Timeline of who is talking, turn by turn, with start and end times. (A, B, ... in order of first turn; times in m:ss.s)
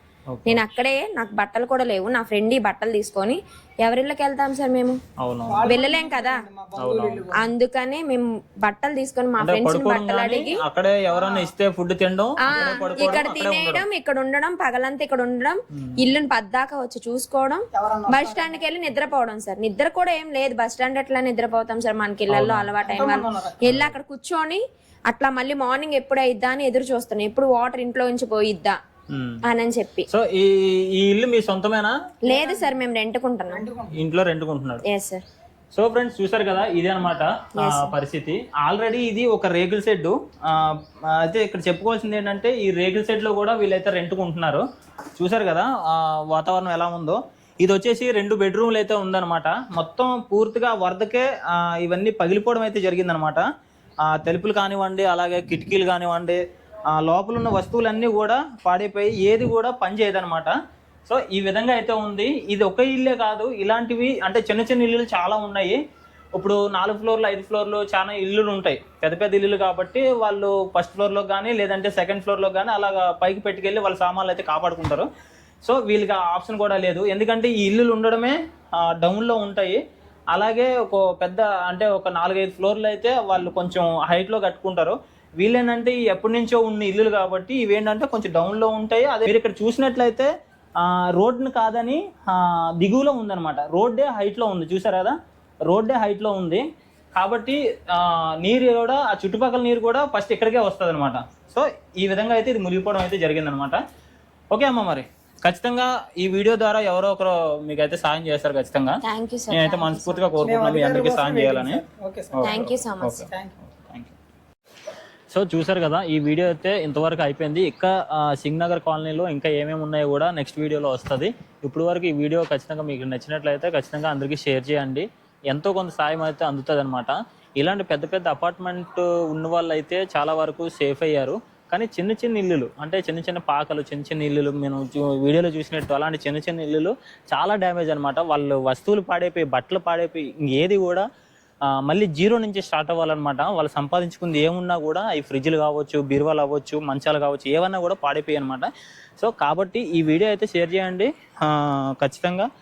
0:00.3-0:00.6 A
0:00.5-0:05.0 B
0:05.2-0:05.8 A
0:05.5-0:07.5 C
0:05.6-0:06.4 B
0:06.8-0:07.2 A
0:07.4-0:10.6 B
0:09.4-0:13.8 A
0:11.1-0:11.5 C
0:12.4-0:28.8 B
0:12.5-0:13.3 C
0:17.7-0:18.6 C
0:22.3-0:22.7 A
0:22.8-0:23.6 C
0:23.6-0:24.0 A
0:29.1-0:29.4 A
0:29.4-0:30.1 B
0:30.1-0:31.9 A
0:32.3-0:32.8 C
0:32.3-0:33.6 B
0:33.5-0:34.0 C
0:34.0-0:34.8 A
0:34.9-0:35.2 B
0:35.7-0:44.6 A
0:37.6-0:37.9 B
0:45.2-0:53.5 A
0:54.1-0:56.4 A
0:56.9-1:00.6 A
1:01.1-1:05.8 A
1:06.4-1:15.1 A
1:15.6-1:19.8 A
1:20.3-1:30.3 A
1:30.8-1:35.2 A
1:35.7-1:36.6 A
1:37.2-1:43.8 A
1:44.5-1:49.0 A
1:49.0-1:50.3 B
1:49.5-1:51.8 A
1:50.4-1:52.7 C
1:52.4-1:53.3 A
1:52.4-1:53.2 B
1:53.3-1:53.6 C
1:53.8-1:54.1 A
1:55.3-2:21.1 A
2:21.8-2:32.5 A